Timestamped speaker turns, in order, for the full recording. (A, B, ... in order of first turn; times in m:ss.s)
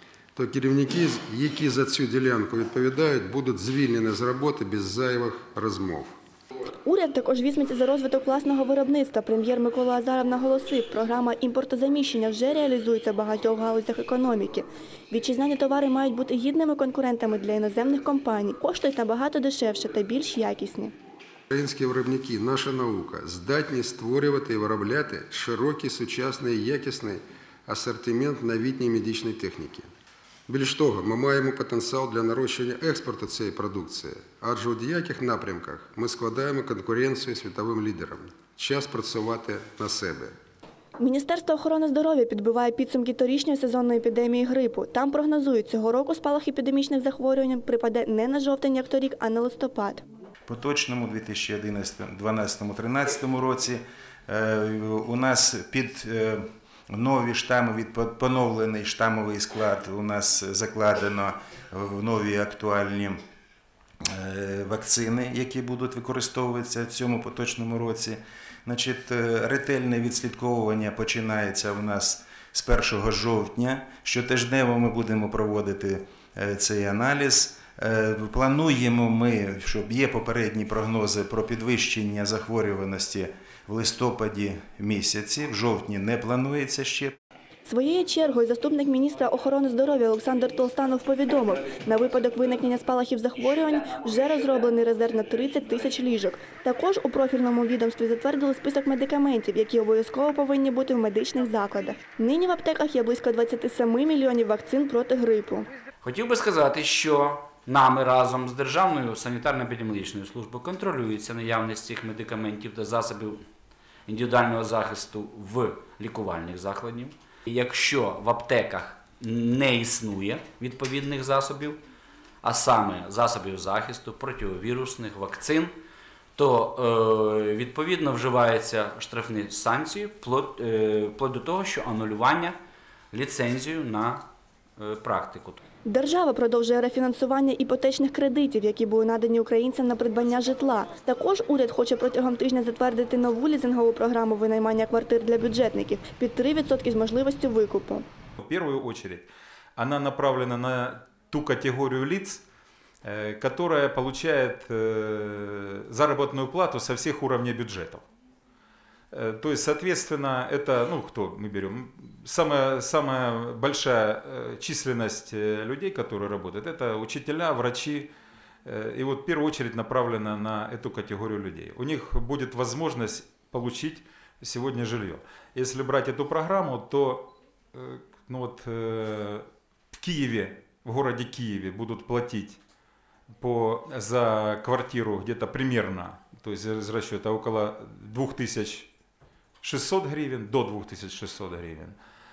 0:00.4-0:06.2 A
0:06.9-0:20.9 B
0:21.5-0:29.9 A
0:30.5-0:40.3 A
0:41.0-0:50.0 B
0:50.5-1:03.2 C
1:04.1-1:27.2 C
1:27.7-1:45.7 B
1:46.0-1:53.4 D
1:54.1-2:01.8 D
2:02.4-2:05.8 D
2:06.4-2:12.6 D
2:13.1-2:15.6 D
2:15.9-2:28.0 B
2:28.4-2:32.4 E
2:33.0-2:38.0 E
2:39.1-2:48.1 E
2:48.6-3:02.6 E
3:03.4-3:08.9 E
3:09.6-3:12.0 E